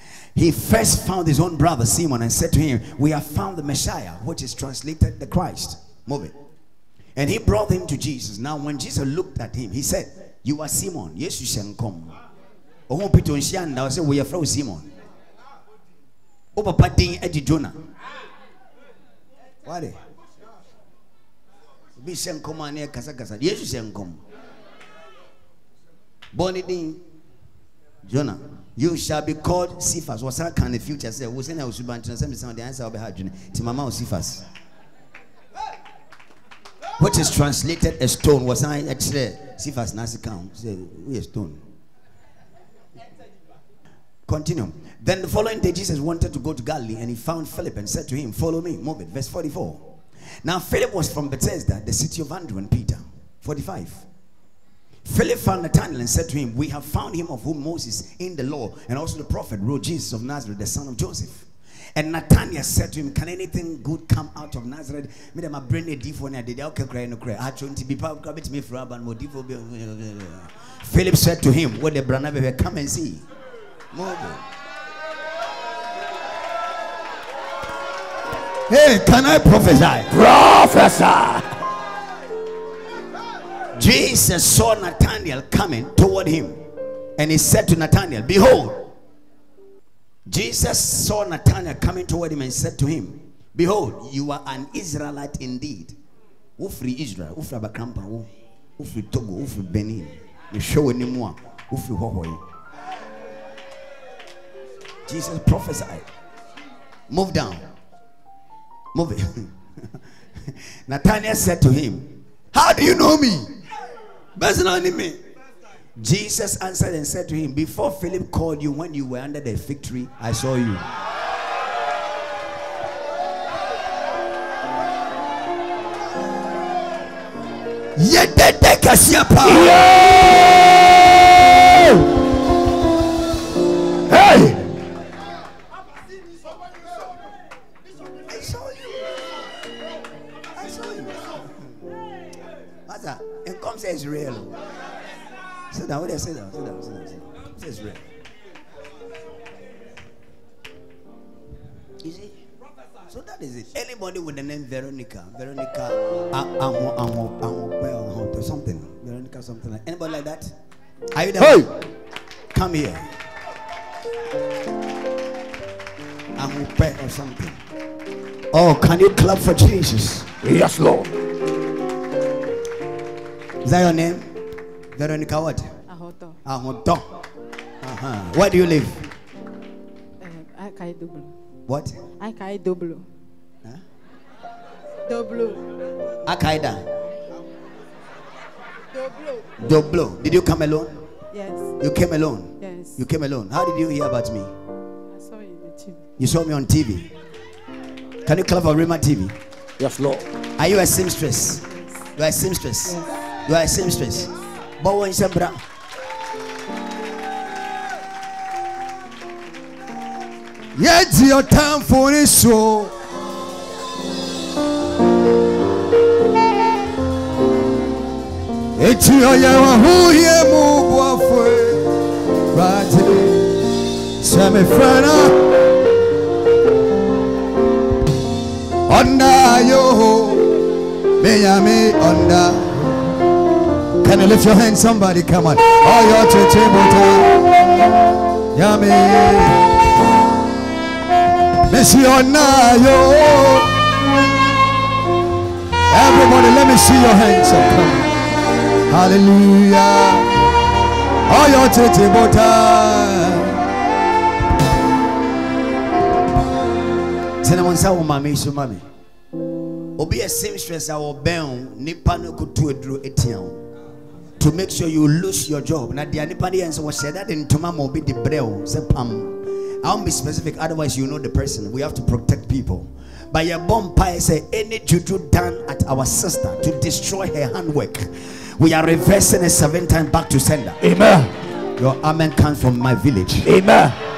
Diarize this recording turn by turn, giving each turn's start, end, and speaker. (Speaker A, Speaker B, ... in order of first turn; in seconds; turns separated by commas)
Speaker A: 0.3-6.3, Speaker A: 7.2-12.1, Speaker A: 12.9-14.9, Speaker A: 16.5-17.8, Speaker A: 19.6-20.0, Speaker A: 22.0-24.2, Speaker A: 26.3-27.0, Speaker A: 28.1-34.4, Speaker A: 37.0-41.6, Speaker A: 44.3-49.8, Speaker A: 50.4-54.0, Speaker A: 55.0-73.2, Speaker A: 73.9-74.4, Speaker A: 78.7-80.1, Speaker B: 80.1-81.5, Speaker A: 83.8-86.6, Speaker A: 87.2-88.9, Speaker A: 90.3-95.9, Speaker A: 96.6-102.4, Speaker A: 105.1-106.0, Speaker A: 107.1-107.6, Speaker A: 108.9-109.8, Speaker A: 110.9-113.5, Speaker A: 114.3-115.2, Speaker A: 116.0-120.8, Speaker A: 128.0-129.8, Speaker B: 129.4-130.9, Speaker B: 134.1-134.6, Speaker A: 138.3-138.9, Speaker A: 140.6-141.4, Speaker A: 142.9-144.5, Speaker A: 145.7-148.0, Speaker A: 152.0-152.3, Speaker A: 153.1-160.5, Speaker A: 161.1-161.7, Speaker A: 162.5-163.0, Speaker A: 166.4-167.6, Speaker A: 168.5-170.3, Speaker B: 170.4-171.1, Speaker A: 173.6-174.3, Speaker A: 174.9-175.7, Speaker A: 176.4-177.0, Speaker A: 177.8-179.0, Speaker A: 181.7-181.9, Speaker C: 182.2-183.0, Speaker C: 185.2-185.5, Speaker A: 186.2-186.8, Speaker A: 189.6-190.9, Speaker C: 191.3-191.7, Speaker A: 191.8-194.5, Speaker C: 192.6-193.0, Speaker A: 196.2-197.1, Speaker A: 198.2-199.3, Speaker B: 199.8-200.3, Speaker A: 200.6-201.6, Speaker A: 202.2-205.6, Speaker A: 210.8-212.9, Speaker A: 218.8-221.8, Speaker A: 222.5-223.4, Speaker A: 224.2-225.3, Speaker A: 228.9-230.4, Speaker A: 231.2-232.9, Speaker A: 234.0-237.3, Speaker A: 238.5-239.6, Speaker A: 241.7-243.7, Speaker A: 245.9-248.1, Speaker A: 248.9-250.2, Speaker A: 251.3-253.5, Speaker A: 257.4-258.8, Speaker A: 260.0-263.6, Speaker A: 264.4-280.8, Speaker B: 280.8-281.3, Speaker A: 281.8-283.5, Speaker B: 283.4-283.9